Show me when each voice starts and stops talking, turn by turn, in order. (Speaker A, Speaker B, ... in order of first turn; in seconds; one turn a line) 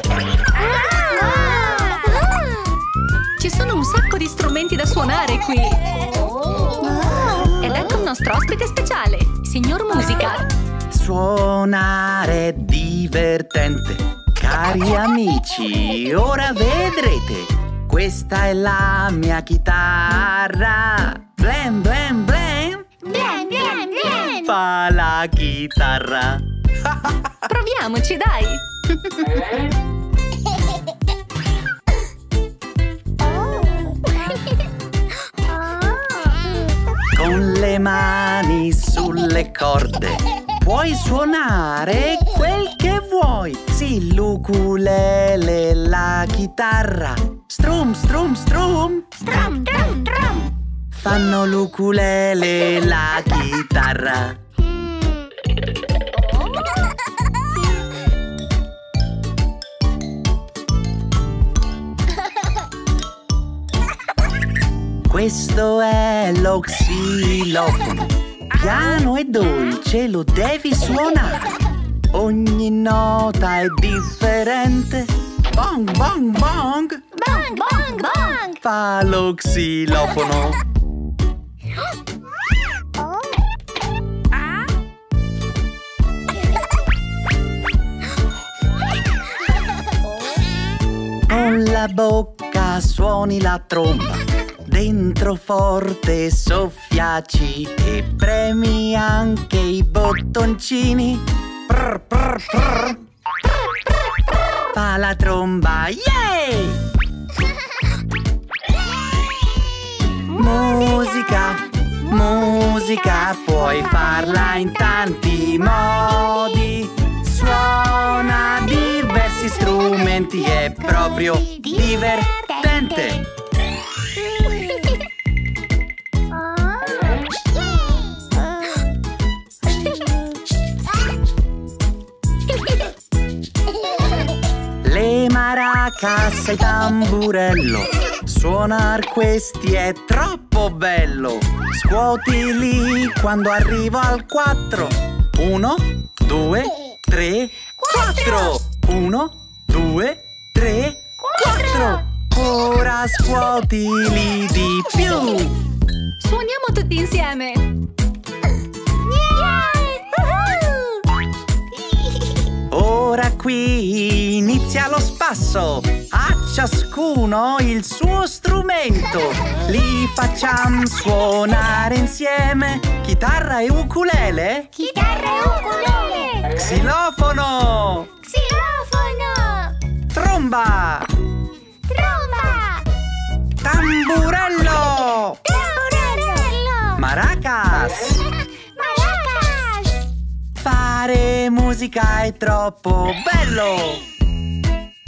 Speaker A: 0.6-2.2
Speaker B: 3.4-5.8
Speaker A: 7.0-7.5
Speaker B: 7.4-10.5
Speaker C: 10.9-22.9
Speaker A: 23.0-24.5
Speaker C: 24.4-26.4
Speaker B: 27.5-28.6
Speaker C: 37.1-49.3
Speaker B: 49.3-50.5
Speaker C: 50.9-54.4
Speaker C: 65.1-71.5
Speaker C: 72.1-77.0
Speaker A: 77.2-78.4
Speaker B: 77.3-78.6
Speaker C: 78.6-80.6
Speaker C: 91.3-103.0
Speaker C: 104.7-106.8
Speaker C: 110.3-123.3
Speaker A: 120.6-123.1
Speaker C: 134.8-155.6
Speaker B: 151.3-152.0
Speaker B: 156.2-157.7
Speaker A: 159.3-160.6
Speaker C: 162.7-174.7
Speaker A: 174.8-176.6
Speaker C: 176.6-178.1
Speaker A: 178.3-179.8
Speaker C: 180.1-181.1
Speaker A: 181.9-182.9
Speaker C: 183.6-185.4
Speaker A: 185.4-187.0
Speaker C: 187.0-188.2
Speaker A: 188.8-190.1
Speaker C: 190.6-194.1